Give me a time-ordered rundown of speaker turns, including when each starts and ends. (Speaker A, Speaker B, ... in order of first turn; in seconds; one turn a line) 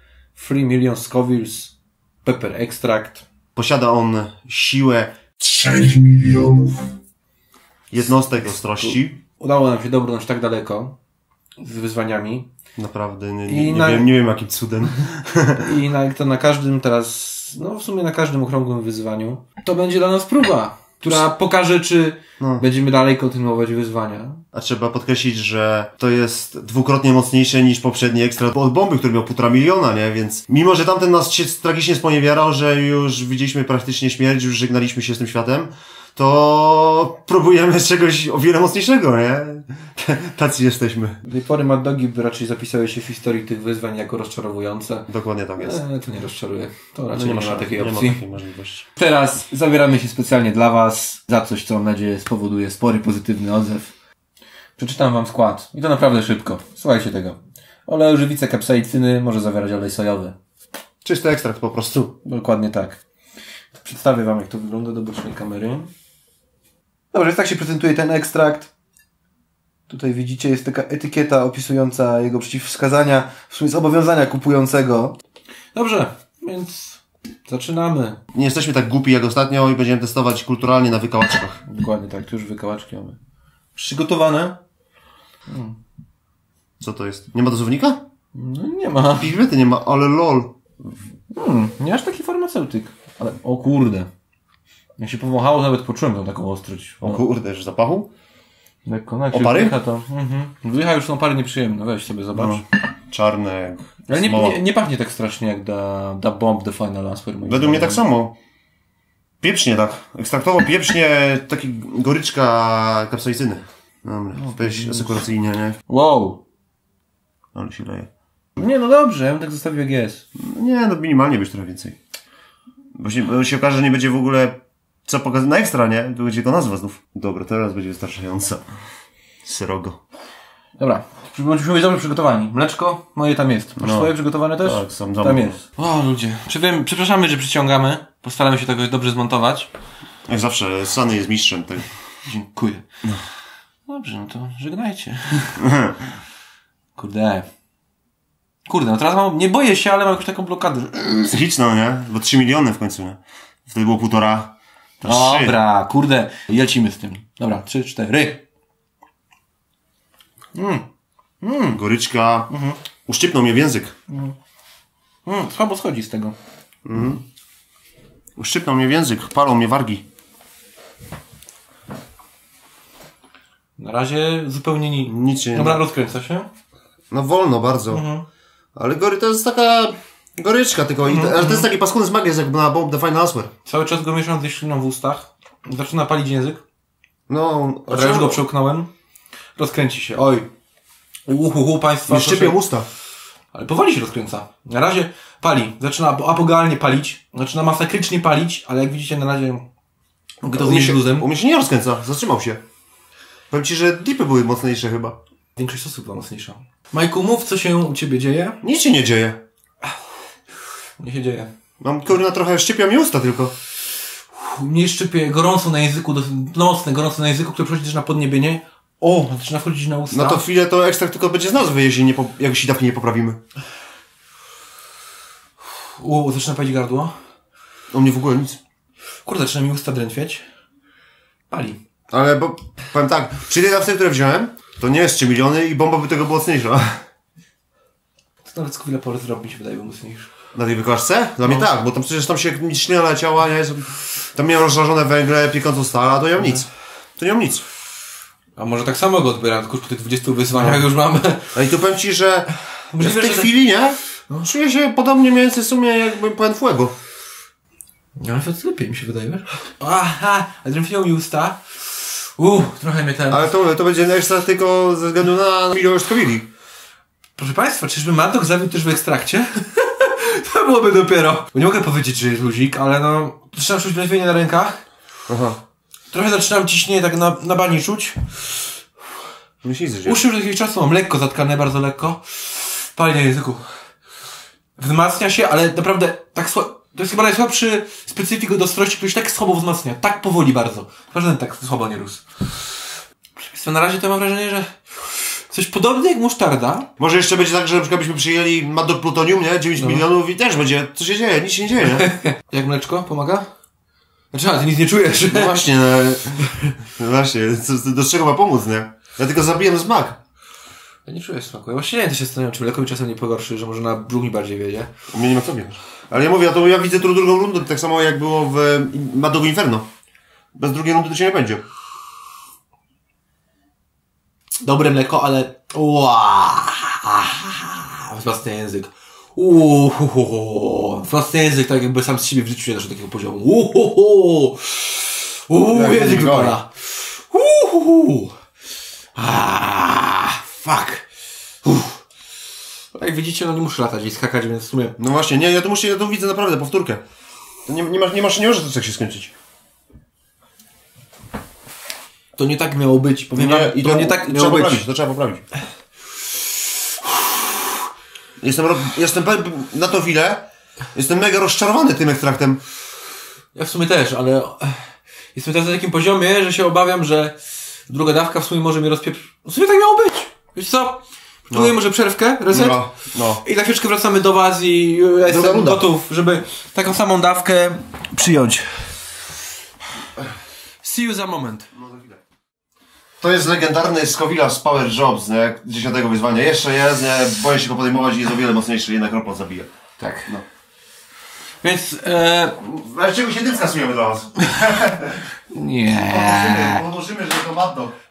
Speaker A: 0.3-1.7
Speaker A: 2.2-3.2
Speaker B: 3.5-6.8
Speaker B: 7.9-9.2
Speaker A: 8.8-10.9
Speaker A: 11.6-12.5
Speaker B: 12.8-15.7
Speaker A: 13.5-14.1
Speaker A: 15.6-24.4
Speaker B: 22.4-22.6
Speaker B: 24.5-41.2
Speaker A: 41.2-48.2
Speaker B: 45.1-45.8
Speaker B: 47.1-48.8
Speaker A: 49.0-53.9
Speaker A: 54.8-60.3
Speaker B: 61.0-62.1
Speaker A: 62.2-63.0
Speaker A: 63.7-65.9
Speaker A: 67.1-68.7
Speaker A: 69.9-75.2
Speaker A: 75.7-78.2
Speaker B: 78.3-81.6
Speaker A: 81.7-83.2
Speaker A: 83.8-84.6
Speaker A: 85.5-85.8
Speaker B: 86.8-88.0
Speaker A: 88.3-89.3
Speaker B: 89.1-90.5
Speaker A: 91.3-94.1
Speaker A: 95.0-97.2
Speaker B: 97.0-98.1
Speaker A: 98.8-102.6
Speaker B: 99.3-99.8
Speaker B: 102.3-104.6
Speaker A: 104.1-108.0
Speaker B: 107.4-108.3
Speaker B: 109.4-115.8
Speaker A: 114.3-115.2
Speaker A: 115.9-116.4
Speaker B: 117.5-118.1
Speaker A: 118.6-120.2
Speaker B: 120.3-122.0
Speaker B: 123.0-128.6
Speaker B: 129.4-130.0
Speaker A: 130.8-139.7
Speaker B: 133.8-135.6
Speaker B: 140.3-141.9
Speaker A: 142.2-142.8
Speaker A: 143.9-145.6
Speaker B: 145.6-146.0
Speaker A: 146.9-147.4
Speaker A: 148.7-151.4
Speaker B: 151.3-155.6
Speaker A: 155.0-158.4
Speaker A: 160.5-160.8
Speaker A: 161.4-161.8
Speaker B: 161.7-162.5
Speaker A: 162.5-162.8
Speaker B: 163.1-163.9
Speaker A: 164.1-164.3
Speaker A: 165.2-166.3
Speaker B: 166.8-167.2
Speaker B: 168.4-170.0
Speaker A: 173.8-176.5
Speaker B: 175.1-175.8
Speaker B: 177.1-178.0
Speaker A: 177.9-178.2
Speaker B: 178.8-183.5
Speaker A: 181.0-181.7
Speaker A: 183.7-186.6
Speaker B: 187.3-188.4
Speaker A: 187.9-188.9
Speaker A: 189.6-190.5
Speaker A: 191.3-192.6
Speaker B: 192.1-192.9
Speaker A: 193.5-199.6
Speaker B: 200.4-202.6
Speaker A: 200.4-201.3
Speaker B: 203.5-205.2
Speaker A: 205.6-208.6
Speaker B: 208.6-209.4
Speaker A: 211.0-211.5
Speaker B: 211.8-213.5
Speaker A: 214.3-220.4
Speaker B: 220.1-223.4
Speaker A: 226.0-227.1
Speaker B: 227.9-228.6
Speaker A: 229.2-230.4
Speaker A: 231.5-231.8
Speaker B: 232.1-237.0
Speaker A: 238.4-240.3
Speaker B: 240.5-247.6
Speaker A: 248.6-251.5
Speaker B: 250.5-250.8
Speaker B: 251.5-256.9
Speaker A: 252.9-253.5
Speaker A: 258.2-263.5
Speaker B: 263.3-266.5
Speaker A: 267.4-274.8
Speaker B: 275.3-275.6
Speaker A: 276.1-278.6
Speaker B: 279.6-280.2
Speaker A: 280.0-283.7
Speaker A: 284.8-292.2
Speaker A: 293.4-296.9
Speaker B: 297.0-302.1
Speaker A: 299.8-300.0
Speaker A: 301.9-303.5
Speaker A: 304.3-305.6
Speaker B: 305.2-310.2
Speaker A: 311.1-314.9
Speaker B: 315.1-319.9
Speaker B: 320.5-321.6
Speaker A: 324.6-338.3
Speaker B: 335.7-336.6
Speaker A: 339.1-341.0
Speaker A: 341.6-342.0
Speaker A: 342.9-344.9
Speaker B: 345.0-347.0
Speaker B: 347.6-349.3
Speaker A: 352.4-354.8
Speaker B: 353.3-355.4
Speaker B: 358.4-362.6
Speaker A: 363.5-367.3
Speaker A: 367.9-378.9
Speaker B: 371.5-371.8
Speaker B: 372.5-373.4
Speaker B: 375.3-375.9
Speaker A: 380.8-381.7
Speaker B: 381.7-382.2
Speaker B: 383.2-389.7
Speaker A: 390.0-390.3
Speaker A: 391.6-392.6
Speaker B: 392.6-395.2
Speaker A: 395.5-396.8
Speaker B: 395.9-397.9